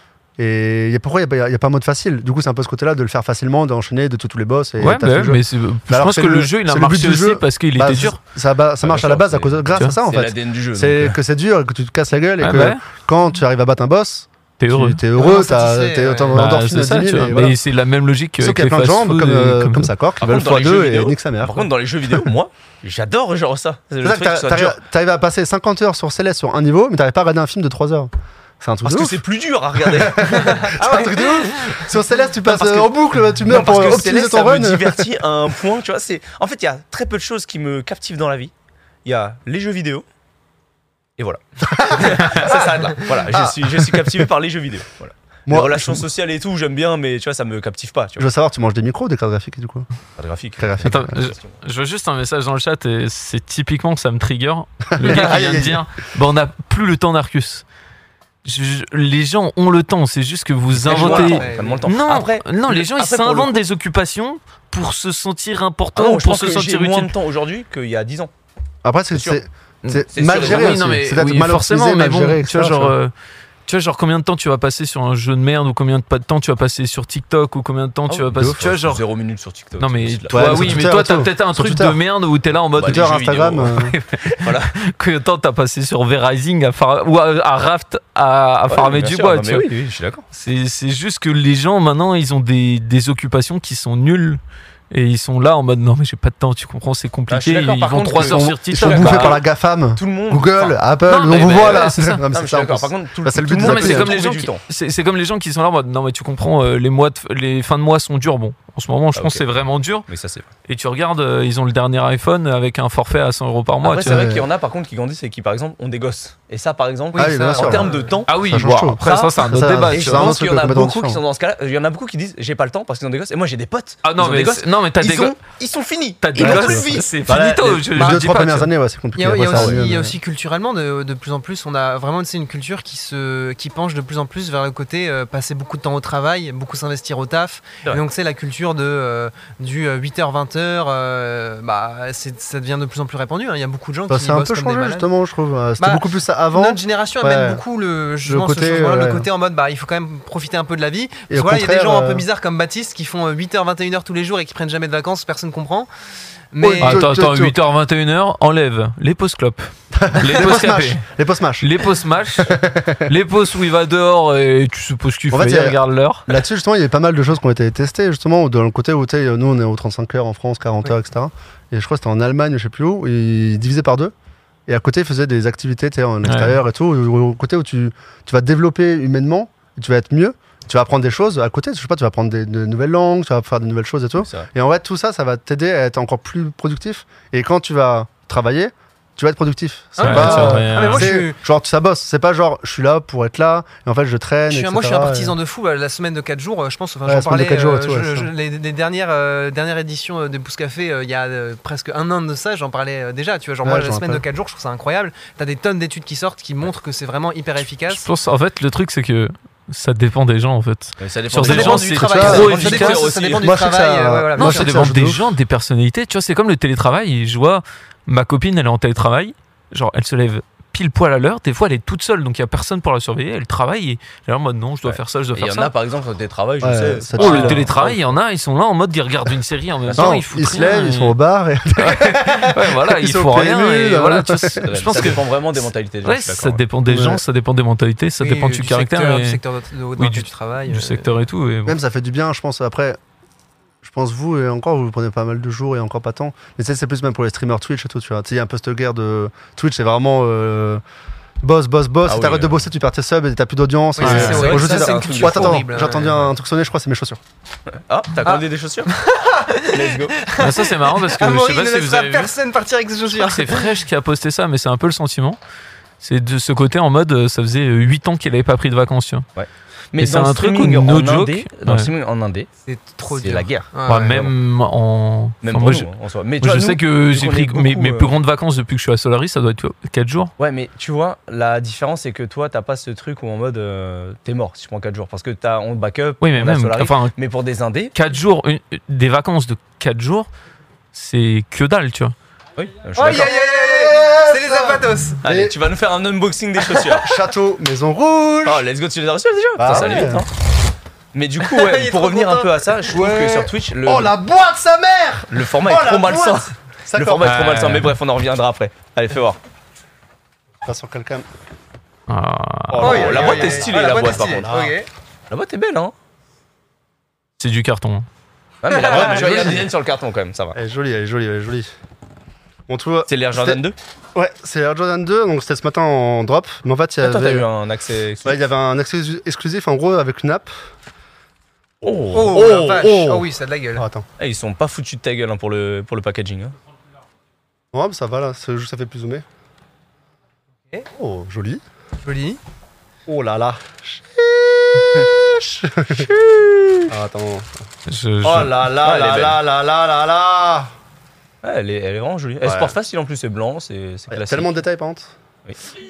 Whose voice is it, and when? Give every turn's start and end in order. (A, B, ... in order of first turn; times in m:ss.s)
0:00.4-0:17.6 A
0:04.8-0:08.2 B
0:08.8-0:11.2 C
0:12.4-0:12.8 B
0:14.6-0:15.0 B
0:15.1-0:16.4 D
0:16.3-0:19.9 B
0:18.4-0:21.7 A
0:20.2-0:24.8 C
0:24.0-0:29.2 A
0:28.8-0:30.8 C
0:29.8-0:35.1 A
0:30.4-0:31.5 D
0:32.4-0:32.9 C
0:33.4-0:38.5 C
0:39.0-0:40.0 C
0:41.2-0:48.3 C
0:41.7-0:42.5 A
0:43.3-0:44.2 A
0:45.5-0:46.0 A
0:48.2-0:49.8 A
0:50.2-0:51.5 C
0:50.6-0:51.2 A
0:50.8-0:57.6 B
0:55.0-0:55.8 A
0:58.4-1:07.1 B
1:00.8-1:03.5 C
1:00.9-1:01.8 D
1:05.9-1:08.3 C
1:08.8-1:12.9 A
1:09.1-1:09.4 C
1:09.8-1:13.1 B
1:10.1-1:10.8 C
1:13.7-1:19.0 B
1:18.1-1:20.8 C
1:19.8-1:29.7 B
1:20.3-1:22.0 A
1:22.8-1:23.7 C
1:22.8-1:23.9 A
1:24.4-1:24.7 C
1:28.7-1:30.2 C
1:30.3-1:34.4 B
1:34.9-1:39.4 B
1:37.3-1:39.4 C
1:38.2-1:44.1 A
1:39.9-1:40.8 C
1:41.1-1:42.2 B
1:41.3-1:44.6 C
1:43.6-1:50.1 B
1:49.1-1:49.4 C
1:50.1-1:50.4 C
1:50.6-1:54.2 B
1:53.8-1:58.3 C
1:54.0-1:54.4 A
1:57.1-1:58.1 D
1:57.2-2:01.2 A
1:58.3-2:00.4 B
1:59.0-2:07.1 C
2:04.0-2:05.4 B
2:06.2-2:08.7 B
2:06.4-2:10.2 A
2:08.0-2:08.2 D
2:09.2-2:25.0 D
2:24.1-2:27.6 A
2:25.8-2:35.9 D
2:28.2-2:29.3 A
2:31.3-2:32.2 A
2:36.5-2:37.0 D
2:36.6-2:37.6 A
2:36.8-2:41.0 B
2:39.9-2:41.7 A
2:41.6-2:46.3 B
2:42.4-2:43.1 A
2:45.3-2:54.1 A
2:54.7-3:15.3 A
2:56.2-2:56.6 B
3:04.2-3:04.5 C
3:10.0-3:11.4 D
3:10.0-3:11.2 B
3:14.5-3:28.0 D
3:17.0-3:18.3 A
3:23.6-3:24.2 A
3:27.9-3:33.0 B
3:31.0-3:33.5 C
3:31.4-3:34.7 D
3:32.0-3:35.3 A
3:34.4-3:45.7 B
3:44.8-3:48.1 C
3:46.6-3:47.7 A
3:47.2-3:51.2 B
3:49.8-3:50.2 C
3:50.0-3:55.2 A
3:51.8-3:59.4 B
3:54.6-3:56.6 C
3:56.8-3:57.2 A
3:58.2-4:01.1 D
4:00.0-4:01.8 B
4:01.6-4:03.0 A
4:03.8-4:10.8 A
4:11.4-4:17.2 A
4:12.0-4:12.6 C
4:14.0-4:16.1 D
4:14.0-4:16.3 C
4:14.1-4:14.4 B
4:17.7-4:18.9 C
4:18.2-4:23.7 D
4:19.7-4:20.2 C
4:20.4-4:22.3 B
4:23.1-4:25.4 B
4:26.0-4:29.2 B
4:29.4-4:32.5 C
4:30.0-4:31.9 B
4:32.7-4:34.2 D
4:33.1-4:34.3 C
4:33.9-4:35.9 B
4:35.4-4:38.1 C
4:36.4-4:40.3 B
4:40.4-4:47.9 C
4:46.2-4:47.1 B
4:47.9-4:50.3 B
4:50.9-4:52.1 B
4:52.6-4:53.3 C
4:53.0-4:55.2 D
4:53.0-4:55.6 A
4:55.2-4:57.1 C
4:57.0-4:58.6 A
4:58.4-5:00.3 C
4:59.6-5:00.2 A
5:01.1-5:04.2 C
5:01.4-5:02.6 D
5:02.9-5:07.4 A
5:05.3-5:09.4 C
5:07.2-5:07.9 B
5:10.6-5:11.3 A
5:12.1-5:13.1 B
5:12.7-5:14.8 A
5:12.8-5:14.5 C
5:12.8-5:14.9 D
5:15.3-5:15.9 C
5:17.4-5:18.0 B
5:18.6-5:20.6 C
5:18.7-5:19.6 D
5:18.9-5:19.6 A
5:20.5-5:21.7 A
5:22.7-5:23.6 A
5:23.1-5:23.8 C
5:24.1-5:27.5 A
5:27.0-5:28.4 C
5:28.2-5:30.5 A
5:31.8-5:32.7 C
5:31.9-5:34.0 A
5:32.1-5:33.8 D
5:34.2-5:36.5 C
5:37.7-5:39.2 A
5:40.9-5:41.6 A
5:42.0-5:42.4 D
5:43.1-5:46.1 A
5:45.9-5:46.8 C
5:46.9-5:47.5 A
5:47.9-5:48.7 B
5:48.2-5:50.7 A
5:48.8-5:49.4 C
5:51.4-5:54.6 C
5:52.4-5:52.7 A
5:54.1-5:55.1 A